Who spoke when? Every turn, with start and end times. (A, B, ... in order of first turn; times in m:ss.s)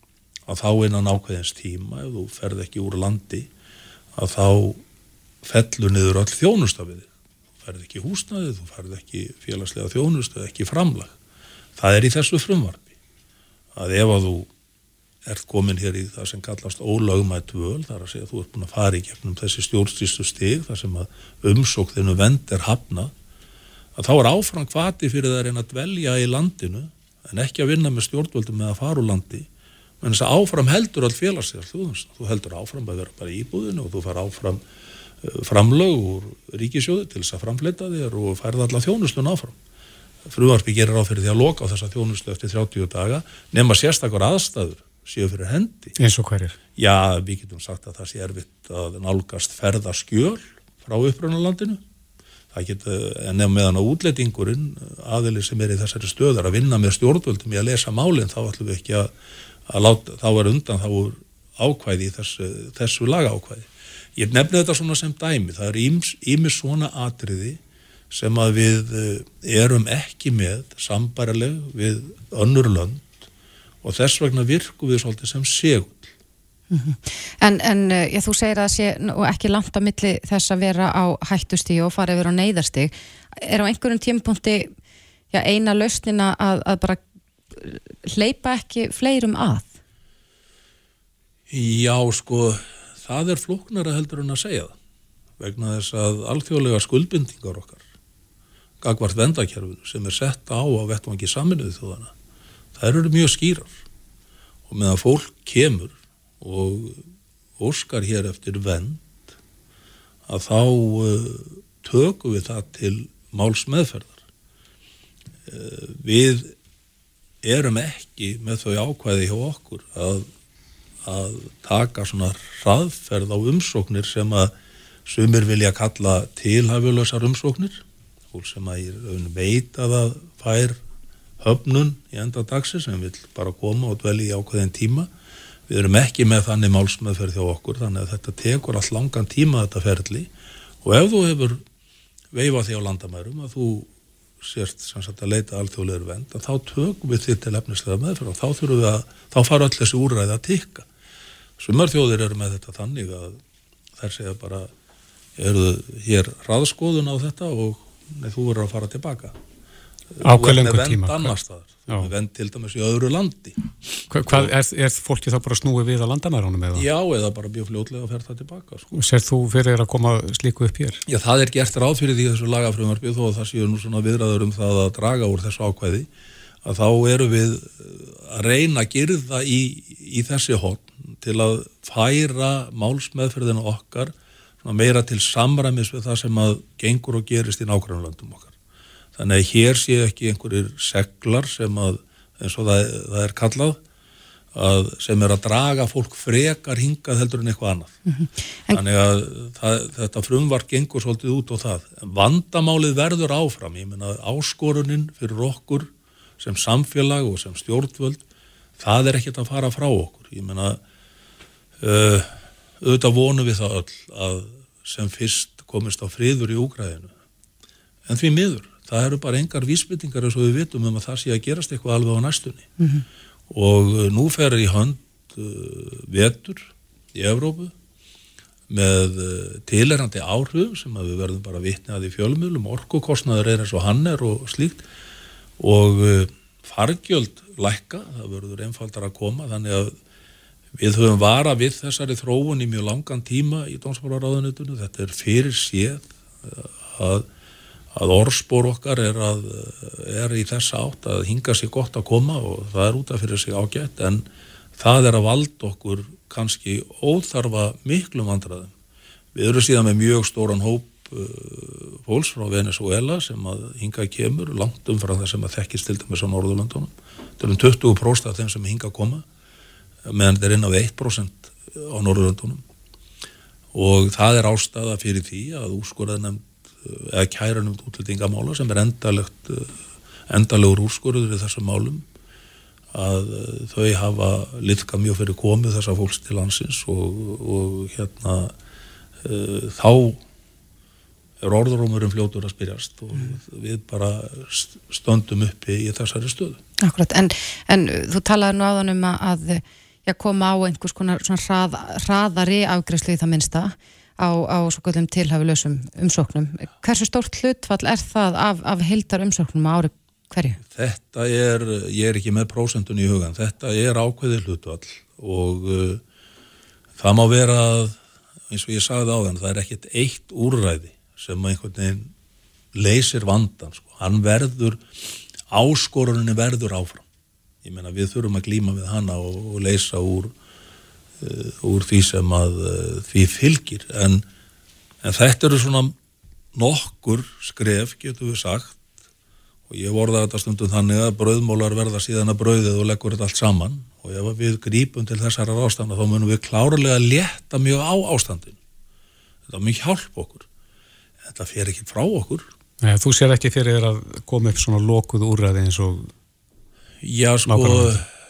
0:00.5-0:03.5 A
0:04.2-0:04.8 A
0:05.4-0:07.1 A
0:07.6-0:11.2 A
0:11.8-0:12.9 A
0:13.8-0:14.5 A
0:15.2-0:23.1 A
0:24.0-0:29.5 A
0:30.0-0:34.6 A
0:35.2-0:39.6 A
0:40.2-0:46.0 A
0:46.0-0:46.6 B
0:46.8-0:51.8 A
0:52.5-0:59.1 A
0:59.7-1:07.6 A
1:08.1-1:13.3 A
1:13.8-1:16.1 A
1:16.7-1:24.7 C
1:25.3-1:27.0 C
1:27.6-1:29.8 C
1:31.5-1:34.7 A
1:35.4-1:37.8 A
1:38.8-1:42.1 A
1:42.8-1:43.8 A
1:44.7-1:47.0 A
1:47.6-1:49.2 A
1:50.3-1:54.2 A
1:55.5-1:56.6 A
1:57.4-2:00.3 A
2:01.0-2:04.5 A
2:05.1-2:10.8 A
2:11.4-2:15.1 A
2:15.7-2:20.3 A
2:20.8-2:21.6 A
2:22.3-2:23.9 A
2:24.4-2:30.9 A
2:31.6-2:33.4 A
2:34.0-2:34.7 A
2:35.4-2:39.4 A
2:40.1-2:44.5 A
2:40.2-2:41.3 B
2:44.1-2:46.8 B
2:46.7-2:48.9 A
2:48.9-2:51.0 B
2:51.1-2:56.1 A
2:56.6-3:08.5 A
3:09.2-3:13.8 A
3:14.5-3:18.0 A
3:18.1-3:18.8 C
3:18.7-3:28.2 A
3:28.8-3:30.8 A
3:31.8-3:37.1 A
3:38.1-3:42.7 A
3:43.5-3:47.7 A
3:48.7-3:54.8 A
3:55.6-4:00.0 A
4:00.8-4:07.3 A
4:07.9-4:14.3 A
4:14.8-4:18.7 A
4:19.4-4:29.2 A
4:30.1-4:32.6 A
4:33.7-4:39.7 A
4:40.3-4:42.0 A
4:42.9-4:48.5 A
4:49.2-4:50.2 A
4:51.4-4:56.6 A
4:56.8-5:10.6 C
5:10.7-5:16.0 A
5:17.0-5:18.0 A
5:18.5-5:22.1 A
5:22.8-5:27.0 A
5:27.6-5:30.3 A
5:31.2-5:34.2 A
5:35.0-5:36.0 A
5:36.5-5:38.8 A
5:39.7-5:48.6 A
5:49.5-5:50.5 A
5:51.2-5:52.5 A
5:52.8-5:56.1 B
5:57.0-5:58.1 A
5:57.5-5:58.0 B